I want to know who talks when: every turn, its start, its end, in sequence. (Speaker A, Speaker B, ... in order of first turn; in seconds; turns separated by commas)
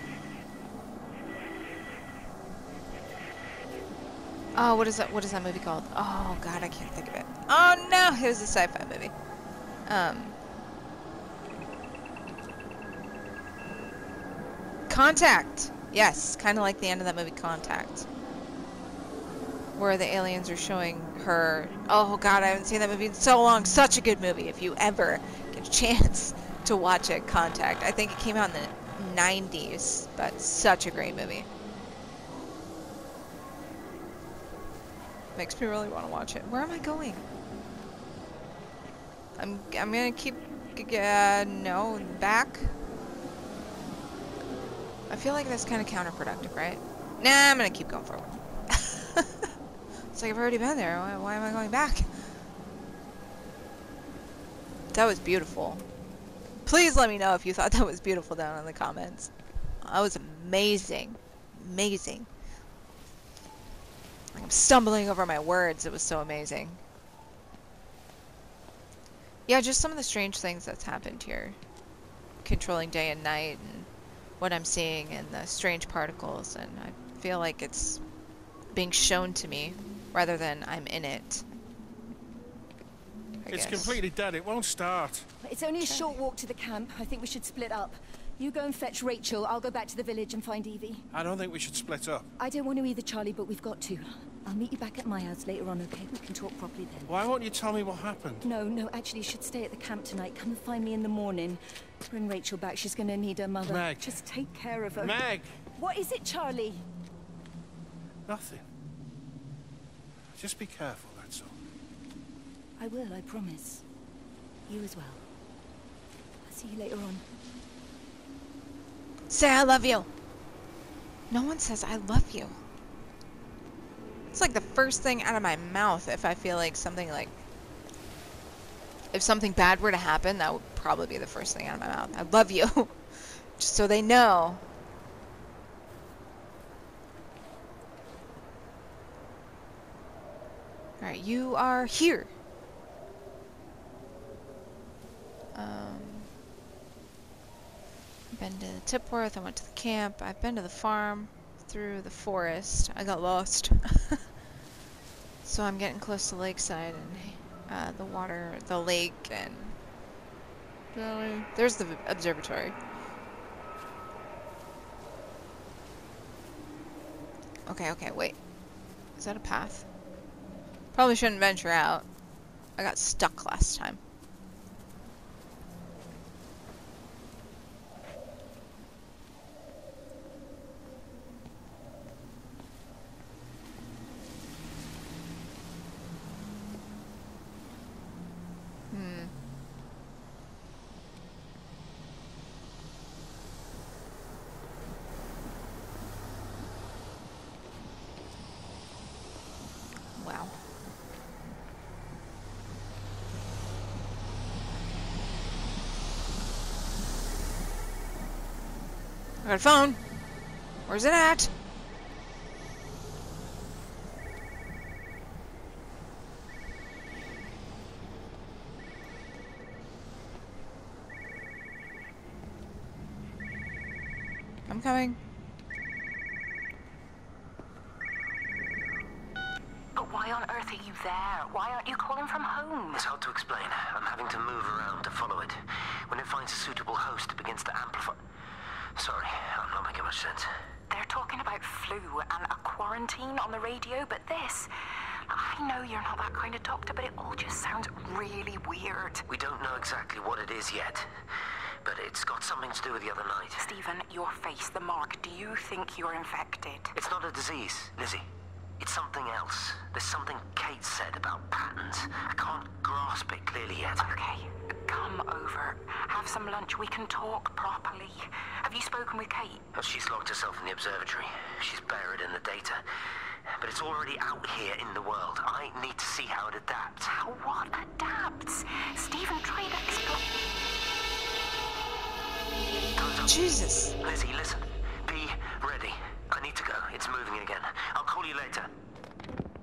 Speaker A: 4.5-9.1, Speaker A: 9.9-10.4, Speaker A: 14.9-18.1, Speaker A: 19.8-31.5, Speaker A: 35.4-37.2, Speaker A: 39.4-42.7, Speaker A: 45.1-49.5, Speaker A: 50.1-52.1, Speaker A: 54.9-55.8, Speaker A: 56.7-59.3, Speaker A: 59.8-62.3, Speaker A: 64.3-66.8, Speaker A: 69.5-71.6, Speaker A: 72.4-78.0, Speaker A: 78.7-81.5, Speaker A: 83.5-84.0, Speaker B: 83.5-85.2, Speaker C: 85.4-91.0, Speaker A: 85.8-86.1, Speaker B: 91.1-92.3, Speaker C: 92.4-97.2, Speaker B: 97.1-98.4, Speaker C: 98.4-106.8, Speaker B: 103.7-104.2, Speaker B: 105.0-105.5, Speaker B: 108.3-108.7, Speaker B: 110.4-111.5, Speaker C: 112.8-113.8, Speaker C: 114.7-115.2, Speaker C: 116.4-117.2, Speaker A: 119.3-120.1, Speaker A: 121.3-122.6, Speaker A: 124.3-127.4, Speaker A: 129.1-133.0, Speaker A: 133.6-134.6, Speaker A: 141.0-142.3, Speaker A: 145.5-146.3, Speaker A: 148.3-154.2, Speaker A: 155.4-159.8, Speaker A: 160.9-162.8, Speaker A: 167.7-168.4, Speaker A: 169.2-169.9, Speaker A: 170.9-172.1, Speaker A: 172.8-174.0, Speaker A: 188.9-189.3, Speaker A: 200.2-200.5, Speaker A: 209.4-210.0, Speaker A: 210.9-211.5, Speaker A: 224.7-225.2, Speaker D: 230.0-233.1, Speaker E: 232.9-238.2, Speaker E: 239.0-240.5, Speaker D: 240.9-244.7, Speaker D: 245.3-249.2, Speaker E: 249.3-251.1, Speaker E: 251.8-253.7, Speaker D: 253.6-256.9, Speaker E: 256.9-258.2, Speaker E: 258.8-264.1, Speaker D: 264.0-269.6, Speaker E: 269.7-272.8, Speaker E: 273.5-277.1, Speaker D: 277.1-280.2, Speaker E: 283.0-288.7, Speaker A: 283.2-283.9